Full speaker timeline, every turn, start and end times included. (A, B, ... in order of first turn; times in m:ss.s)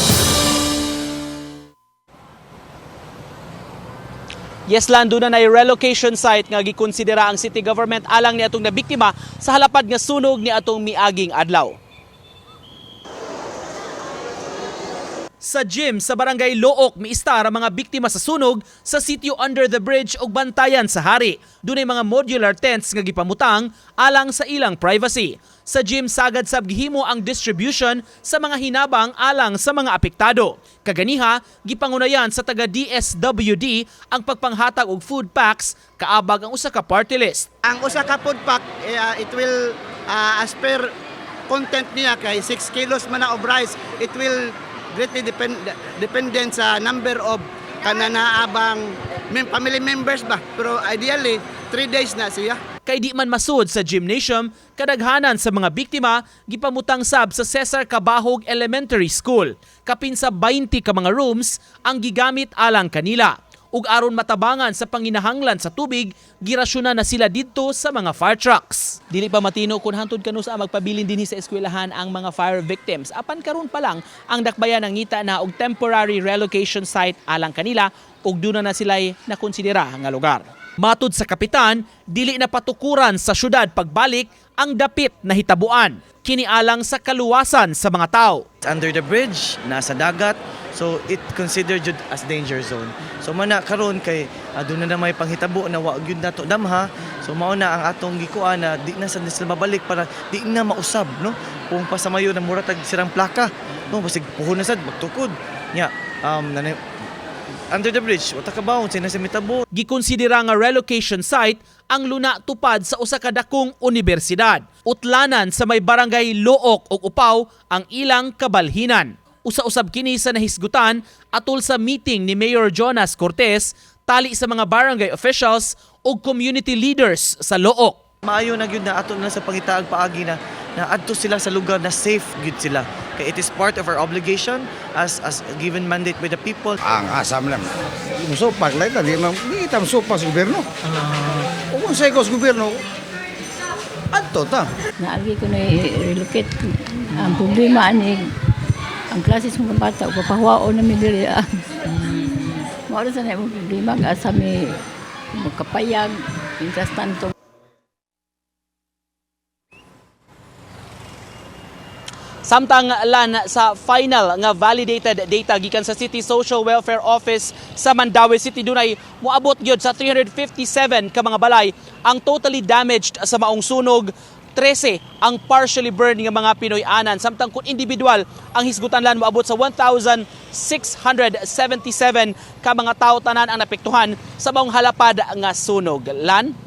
0:04.7-0:11.8 A
0:15.4-0:37.5 A
0:37.6-0:40.9 B
0:41.5-0:52.6 B
0:52.8-1:28.4 A
1:28.6-1:46.8 C
1:47.7-1:49.6 C
1:49.7-2:08.0 A
2:08.2-2:16.8 C
2:16.8-2:22.8 D
2:24.1-2:24.7 D
2:25.0-2:28.5 E
2:29.1-2:34.8 E
2:35.3-2:37.3 E
2:42.4-3:06.5 A